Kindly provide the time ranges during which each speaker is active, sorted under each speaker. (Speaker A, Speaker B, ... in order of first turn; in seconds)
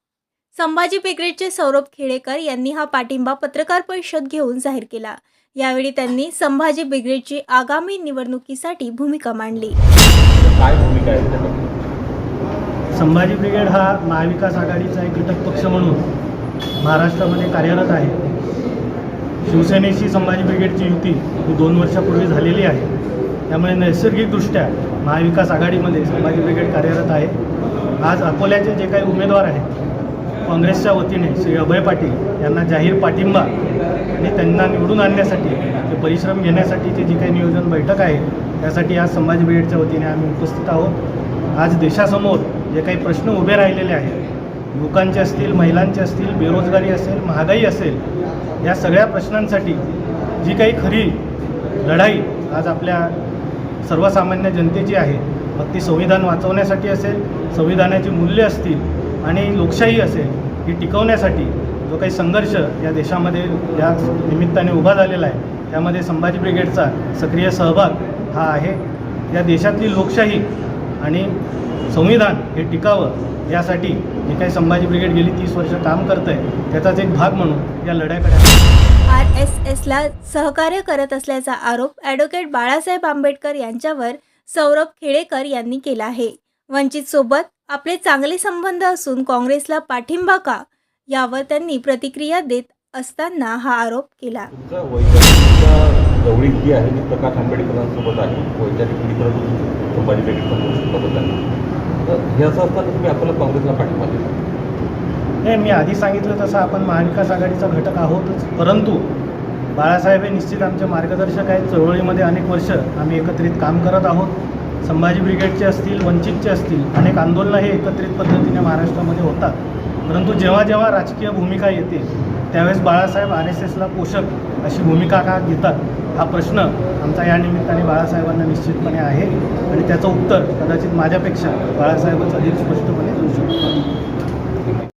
Speaker A: 0.5-9.8, 79.1-94.5
Speaker B: 10.3-11.6, 94.5-101.4, 102.0-104.3
Speaker C: 12.9-16.0, 16.8-18.2, 19.4-22.9, 23.5-27.3, 28.0-29.7, 30.4-33.5, 34.2-41.0, 41.5-44.2, 44.7-48.0, 48.6-49.8, 50.4-51.2, 51.8-53.1, 53.8-70.4, 71.0-71.4, 71.9-78.6, 105.4-109.0, 109.7-133.8